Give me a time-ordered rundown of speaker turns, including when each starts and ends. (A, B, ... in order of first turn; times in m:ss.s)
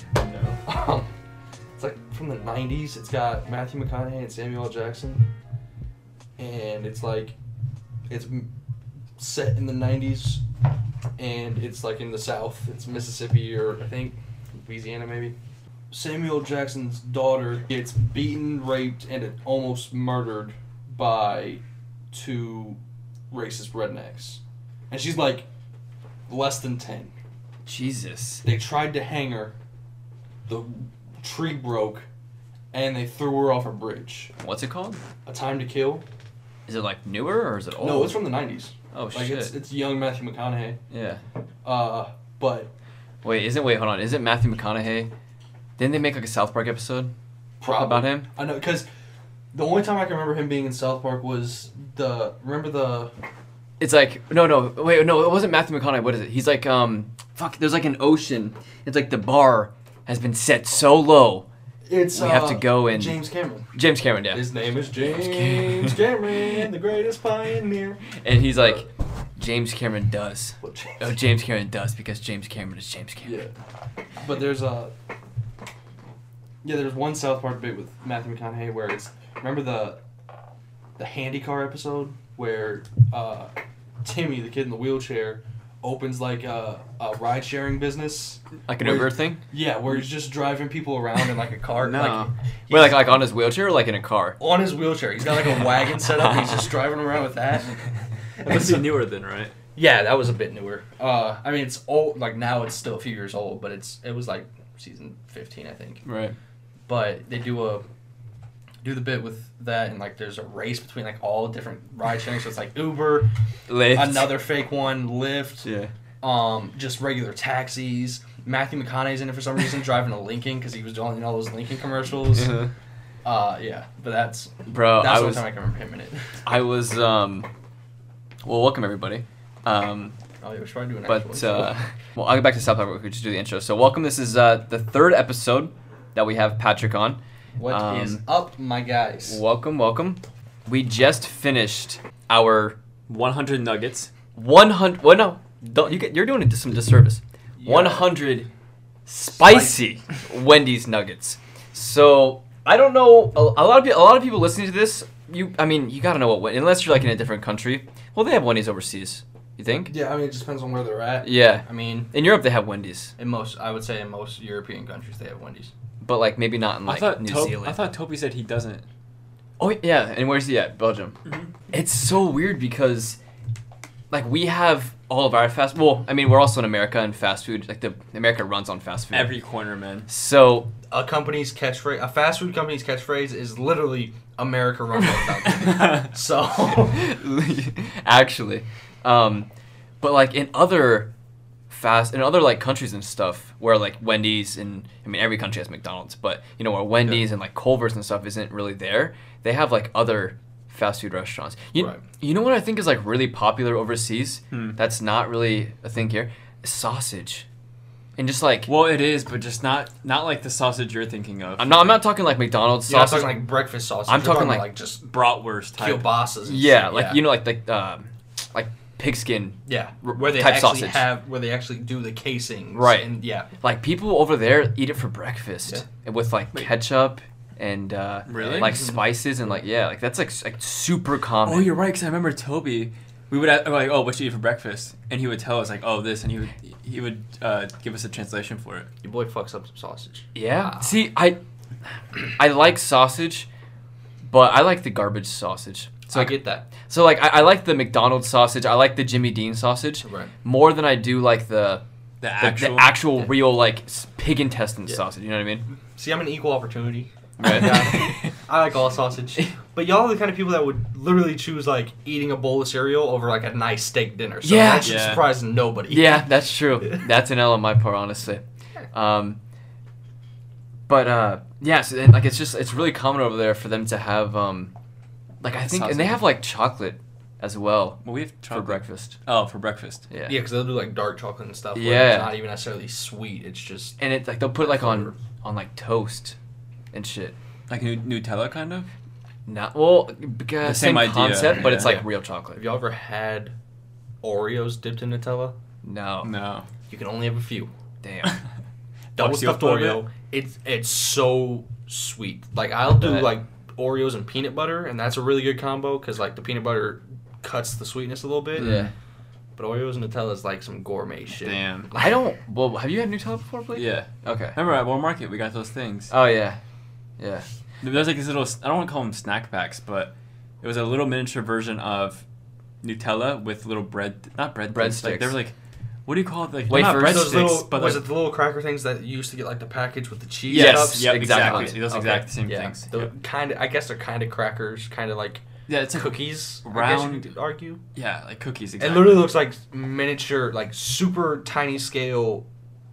0:00.2-0:00.6 A
0:00.7-0:01.1 B
0:01.8-0:05.3 B
0:06.4-0:07.4 B
0:08.1-0:08.5 B
0:09.2-0:10.4 B
0:11.2-0:15.4 B
0:15.9-0:21.6 B
0:22.1-0:22.8 B
0:23.3-0:24.4 B
0:24.9-0:25.5 B
0:26.3-0:27.1 B
0:27.7-0:28.4 C
0:28.4-0:29.6 B
0:30.5-0:32.1 B
0:32.7-0:34.3 B
0:34.4-0:35.0 C
0:35.3-0:36.0 B
0:36.7-0:38.2 C
0:37.8-0:40.8 B
0:38.9-0:39.6 C
0:40.9-0:41.2 C
0:41.6-0:42.7 B
0:43.2-0:45.1 C
0:45.8-0:48.3 C
0:47.6-0:48.9 B
0:49.5-0:53.1 B
0:53.8-1:01.5 C
1:01.9-1:03.7 B
1:02.1-1:04.5 C
1:04.3-1:08.9 B
1:05.0-1:06.0 C
1:08.2-1:08.8 C
1:09.4-1:13.4 C
1:10.6-1:11.1 B
1:13.2-1:13.5 B
1:14.2-1:14.9 B
1:16.6-1:20.0 B
1:21.0-1:23.5 B
1:24.0-1:33.2 B
1:28.7-1:29.4 C
1:31.8-1:32.3 A
1:32.7-1:34.4 C
1:34.4-1:37.8 B
1:36.1-1:36.7 C
1:38.4-1:38.9 B
1:38.4-1:39.5 A
1:39.8-1:46.0 B
1:46.0-1:46.4 C
1:46.9-1:47.8 B
1:48.8-1:53.3 B
1:53.7-1:54.4 C
1:53.9-1:55.7 B
1:55.6-1:55.9 C
1:56.2-2:02.5 B
2:02.3-2:02.7 C
2:03.2-2:06.3 B
2:04.7-2:05.5 C
2:06.4-2:07.5 C
2:08.4-2:10.2 C
2:10.4-2:11.8 B
2:11.0-2:18.2 C
2:17.6-2:19.4 B
2:19.3-2:22.8 C
2:23.1-2:24.1 A
2:24.4-2:28.5 C
2:27.6-2:28.2 B
2:29.1-2:39.9 C
2:29.3-2:29.8 B
2:39.9-2:42.1 B
2:41.2-2:43.1 C
2:43.2-2:45.7 B
2:46.0-2:47.8 C
2:46.9-2:48.9 A
2:49.6-2:51.2 C
2:51.3-2:51.5 A
2:51.7-2:53.2 C
2:54.1-2:59.4 C
2:59.1-3:00.1 A
3:00.1-3:00.7 C
3:00.9-3:07.0 B
3:06.7-3:09.5 C
3:10.0-3:11.1 C
3:11.7-3:27.5 C
3:21.8-3:22.0 B
3:24.5-3:24.8 A
3:28.2-3:28.7 C
3:28.7-3:31.9 A
3:31.6-3:33.5 C
3:32.9-3:35.0 B
3:34.1-3:34.7 C
3:35.0-3:36.1 A
3:35.8-3:37.2 B
3:36.4-3:41.2 C
3:39.7-3:43.5 B
3:42.7-3:51.7 C
3:48.3-3:49.0 A
3:48.4-3:49.6 B
3:51.4-3:58.9 A
3:59.0-4:00.9 B
4:00.4-4:01.4 C
4:02.4-4:03.5 C
4:04.2-4:11.8 C
4:06.1-4:06.7 B
4:10.0-4:10.3 B
4:12.2-4:13.3 A
4:12.4-4:15.7 C
4:16.0-4:26.3 B
4:17.4-4:18.3 C
4:17.5-4:18.0 A
4:24.4-4:25.2 C
4:24.8-4:25.3 A
4:25.9-4:29.4 C
4:30.9-4:34.7 C
4:35.4-4:39.2 C
4:35.5-4:36.3 A
4:38.0-4:40.0 A
4:40.1-4:40.4 C
4:40.3-4:44.0 B
4:41.8-4:42.4 C
4:44.0-4:46.4 C
4:44.6-4:45.2 B
4:46.9-4:47.4 C
4:47.7-4:48.9 A
4:49.5-4:52.6 C
4:50.6-4:52.0 A
4:52.5-4:53.5 B
4:54.2-4:55.6 B
4:55.8-4:56.3 C
4:56.2-4:56.7 A
4:56.9-4:57.7 B
4:58.0-4:58.4 C
4:59.2-5:00.1 A
4:59.2-5:08.9 B
5:02.9-5:03.3 C
5:08.5-5:08.9 C
5:09.6-5:12.2 B
5:11.4-5:11.9 A
5:12.0-5:14.6 C
5:13.7-5:16.1 A
5:16.1-5:16.6 C
5:17.2-5:17.5 C
5:17.8-5:22.2 A
5:22.8-5:25.6 A
5:24.7-5:25.4 C
5:26.1-5:28.1 A
5:26.7-5:27.6 C
5:26.7-5:37.8 B
5:30.5-5:33.1 A
5:30.5-5:31.9 C
5:35.7-5:37.3 A
5:38.0-5:39.3 A
5:38.8-5:42.5 B